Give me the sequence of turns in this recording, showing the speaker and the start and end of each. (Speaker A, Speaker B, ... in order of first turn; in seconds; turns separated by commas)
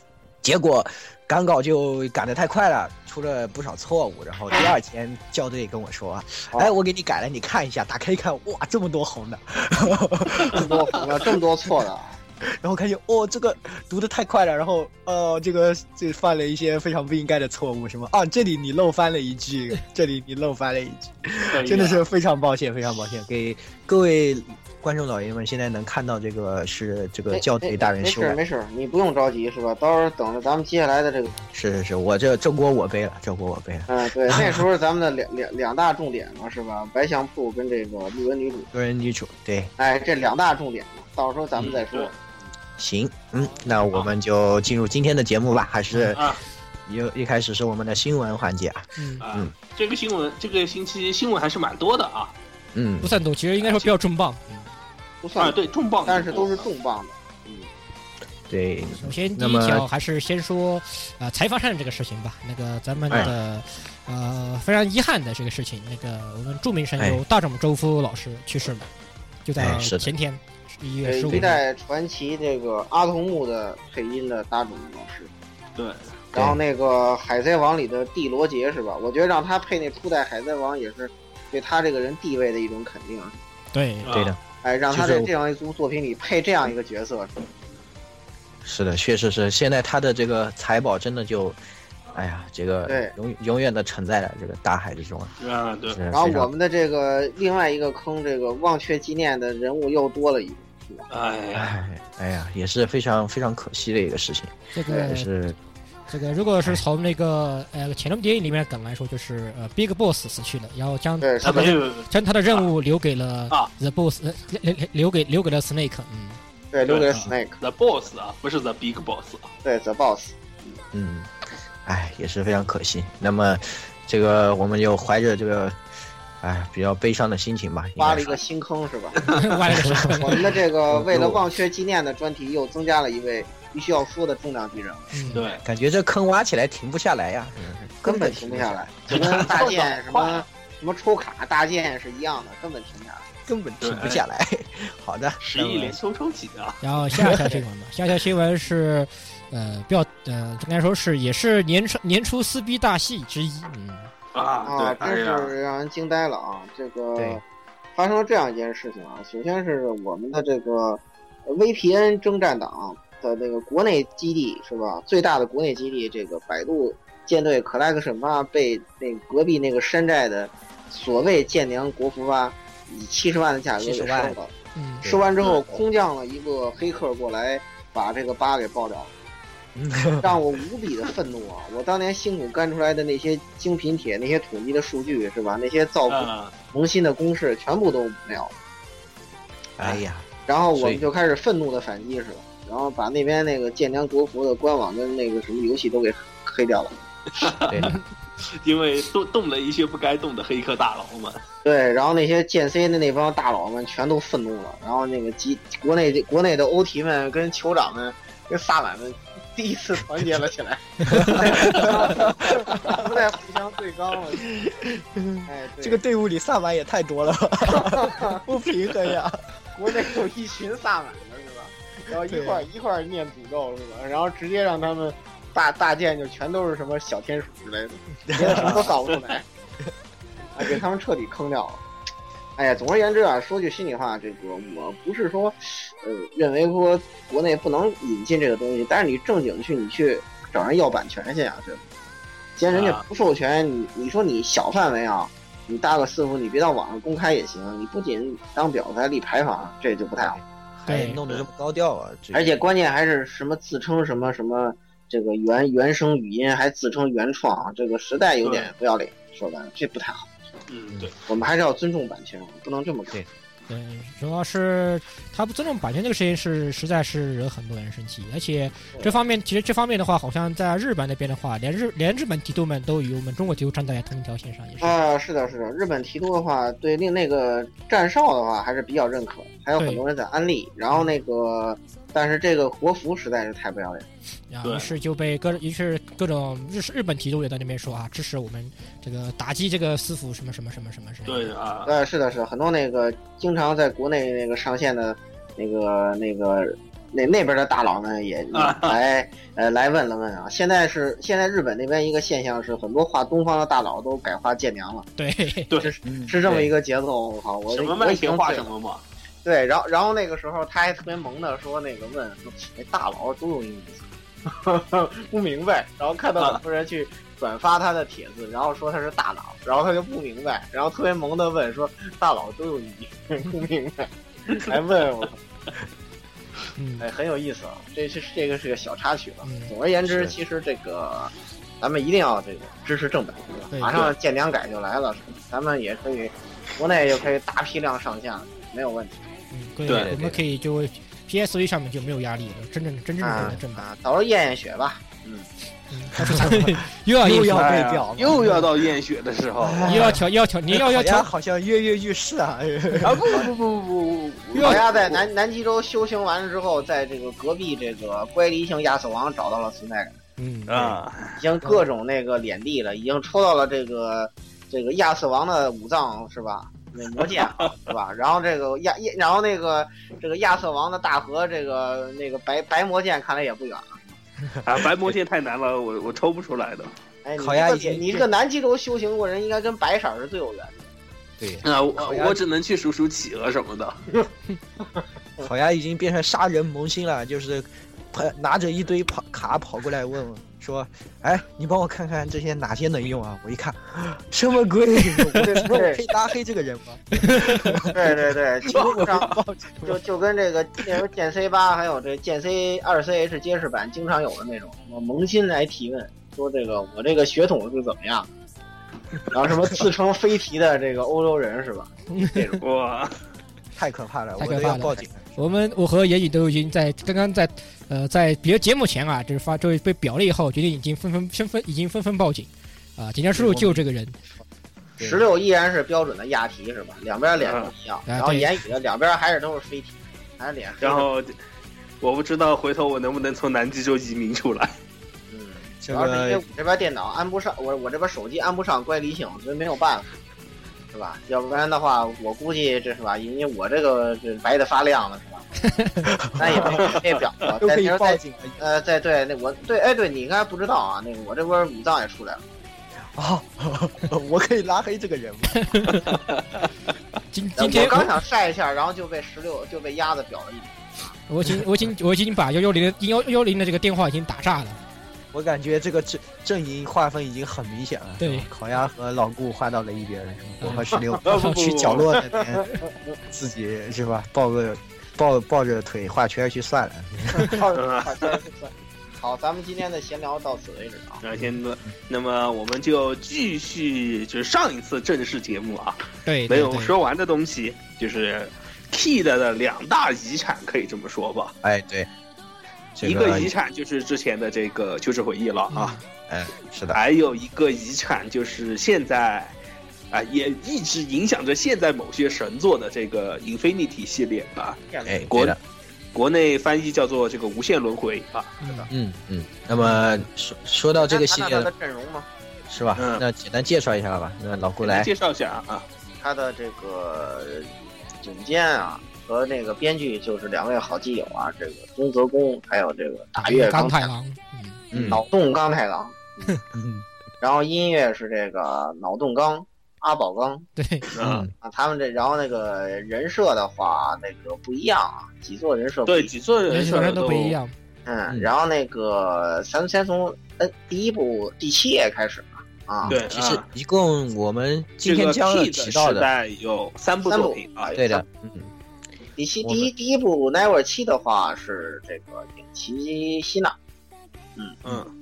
Speaker A: 0.4-11.2, Speaker B: 10.5-12.2, Speaker A: 12.4-28.4, Speaker C: 21.5-22.0, Speaker B: 27.3-31.4, Speaker A: 31.4-34.6, Speaker B: 33.9-38.7, Speaker A: 38.7-39.7, Speaker B: 39.8-42.3, Speaker C: 41.5-42.1, Speaker A: 42.8-46.3, Speaker C: 46.1-46.4, Speaker A: 46.9-49.5, Speaker D: 49.0-49.2, Speaker C: 49.2-52.3, Speaker A: 52.7-53.8, Speaker D: 53.0-54.7, Speaker B: 55.2-57.7, Speaker C: 55.4-56.7, Speaker A: 58.5-59.9, Speaker D: 58.9-68.9, Speaker D: 69.4-71.6, Speaker A: 69.6-70.1, Speaker B: 71.0-75.3, Speaker C: 75.8-76.1, Speaker B: 76.3-83.3, Speaker A: 76.3-76.6, Speaker D: 83.7-84.1, Speaker C: 84.0-84.3, Speaker A: 84.1-85.3, Speaker B: 84.6-87.3, Speaker A: 88.6-91.6, Speaker A: 92.1-95.3, Speaker B: 92.9-93.1, Speaker C: 95.4-96.0, Speaker A: 95.9-96.5, Speaker B: 96.1-101.0, Speaker C: 101.1-101.7, Speaker A: 101.5-105.6, Speaker D: 104.7-105.3, Speaker D: 106.1-116.4, Speaker B: 111.2-111.8, Speaker C: 111.4-112.7, Speaker B: 116.7-117.5, Speaker C: 116.8-119.5, Speaker B: 119.6-120.8, Speaker A: 120.9-121.3, Speaker A: 121.8-125.8, Speaker A: 126.4-128.4, Speaker B: 128.0-129.2, Speaker C: 129.2-129.5, Speaker D: 129.3-130.5, Speaker A: 129.7-131.4, Speaker B: 130.2-135.2, Speaker D: 135.1-135.4, Speaker C: 135.3-135.6, Speaker A: 135.6-139.7, Speaker B: 138.0-143.3, Speaker C: 139.1-140.4, Speaker A: 143.5-146.0, Speaker C: 143.8-144.2, Speaker C: 145.4-146.8, Speaker D: 146.8-154.1, Speaker C: 154.3-155.5, Speaker B: 154.6-157.4, Speaker A: 157.2-157.4, Speaker B: 157.9-174.5, Speaker A: 173.8-174.4, Speaker D: 174.7-175.1, Speaker B: 175.0-179.1, Speaker A: 179.7-180.4, Speaker B: 180.2-188.5, Speaker C: 186.1-186.5, Speaker A: 189.8-191.1, Speaker B: 189.8-197.5, Speaker C: 197.3-201.4, Speaker A: 197.7-198.0, Speaker B: 201.6-214.5, Speaker A: 211.1-213.2, Speaker A: 214.4-220.1, Speaker B: 215.4-216.0, Speaker B: 217.7-218.4, Speaker B: 219.7-229.4, Speaker A: 222.1-222.7, Speaker A: 228.3-228.9, Speaker C: 228.5-229.3, Speaker B: 230.6-231.8, Speaker B: 232.6-241.8, Speaker B: 242.6-250.4, Speaker C: 242.7-243.0, Speaker A: 250.2-252.6, Speaker D: 250.9-251.2, Speaker B: 252.3-260.3, Speaker C: 258.4-258.7, Speaker C: 260.7-261.1, Speaker B: 261.3-263.2, Speaker D: 263.7-275.0, Speaker B: 274.8-284.1, Speaker D: 279.8-280.0, Speaker D: 284.5-291.5, Speaker C: 284.6-284.9, Speaker C: 291.2-291.9, Speaker B: 291.9-305.1, Speaker C: 298.5-299.0, Speaker D: 305.2-305.7, Speaker B: 305.8-308.7, Speaker A: 306.0-306.4, Speaker C: 306.4-306.7, Speaker C: 307.7-309.0, Speaker B: 309.4-325.4, Speaker D: 326.8-327.1, Speaker B: 327.0-339.3, Speaker D: 329.4-329.7, Speaker A: 330.1-330.3, Speaker D: 333.7-334.1, Speaker D: 339.5-343.8, Speaker C: 339.9-340.1, Speaker A: 339.9-340.4, Speaker B: 343.2-345.5, Speaker D: 345.9-347.7, Speaker A: 346.1-348.7, Speaker C: 347.5-350.1, Speaker D: 348.4-348.6, Speaker A: 349.6-353.4, Speaker D: 349.9-351.3, Speaker C: 353.0-355.2, Speaker D: 354.5-354.8, Speaker B: 354.6-360.2, Speaker D: 360.4-361.0, Speaker C: 360.7-361.4, Speaker B: 361.4-374.2, Speaker C: 367.2-367.7, Speaker A: 374.5-375.1, Speaker C: 374.6-376.9, Speaker B: 377.2-380.9, Speaker A: 377.4-378.2, Speaker A: 381.4-382.4, Speaker C: 381.6-384.0, Speaker B: 385.0-385.5, Speaker A: 385.4-400.0, Speaker B: 395.4-396.0, Speaker D: 397.1-397.7, Speaker B: 397.8-408.3, Speaker C: 398.7-399.3, Speaker B: 409.3-412.6, Speaker D: 412.1-412.4, Speaker C: 412.6-413.2, Speaker A: 413.8-415.4, Speaker D: 414.4-424.2, Speaker A: 423.3-423.8, Speaker A: 425.0-425.2, Speaker B: 425.0-431.1, Speaker C: 427.4-427.7, Speaker D: 428.1-428.5, Speaker C: 430.8-431.3, Speaker C: 432.0-434.8, Speaker B: 435.3-440.2, Speaker A: 435.8-436.4, Speaker B: 440.9-445.6, Speaker A: 446.0-447.0, Speaker B: 446.4-452.4, Speaker C: 446.6-447.0, Speaker A: 447.6-448.6, Speaker A: 453.1-456.0, Speaker D: 455.6-456.1, Speaker C: 456.1-456.7, Speaker D: 457.3-458.1, Speaker B: 457.6-461.1, Speaker D: 461.3-464.8, Speaker A: 465.3-472.7, Speaker D: 468.2-468.5, Speaker D: 470.6-471.7, Speaker C: 471.2-472.1, Speaker A: 473.3-477.6, Speaker B: 477.3-481.2, Speaker C: 477.7-478.4, Speaker C: 481.2-491.5, Speaker D: 486.2-486.9, Speaker A: 491.6-492.1, Speaker A: 492.9-493.5, Speaker C: 493.0-495.9, Speaker D: 495.7-496.0, Speaker A: 496.3-497.0, Speaker C: 496.9-499.6, Speaker C: 500.1-504.8, Speaker B: 504.9-505.2, Speaker A: 505.0-505.6, Speaker C: 505.3-505.6, Speaker C: 506.1-508.6, Speaker D: 508.6-508.9, Speaker A: 508.9-511.7, Speaker B: 511.0-512.3, Speaker A: 512.7-515.1, Speaker C: 513.0-513.2, Speaker C: 514.8-515.9, Speaker B: 516.2-517.7, Speaker B: 518.2-524.1, Speaker D: 523.4-524.8, Speaker A: 524.9-525.2, Speaker B: 525.1-526.5, Speaker A: 526.7-527.0, Speaker B: 527.4-530.6, Speaker D: 530.8-531.0, Speaker C: 531.1-531.4, Speaker A: 531.2-531.5, Speaker B: 531.6-536.3, Speaker C: 536.0-537.6, Speaker D: 536.7-537.7, Speaker B: 538.0-543.1, Speaker A: 543.0-546.3, Speaker C: 543.1-543.6, Speaker C: 545.0-547.9, Speaker B: 547.2-548.2, Speaker A: 547.9-548.7, Speaker B: 549.4-553.7, Speaker A: 549.6-549.9, Speaker B: 554.6-554.8, Speaker C: 554.8-555.1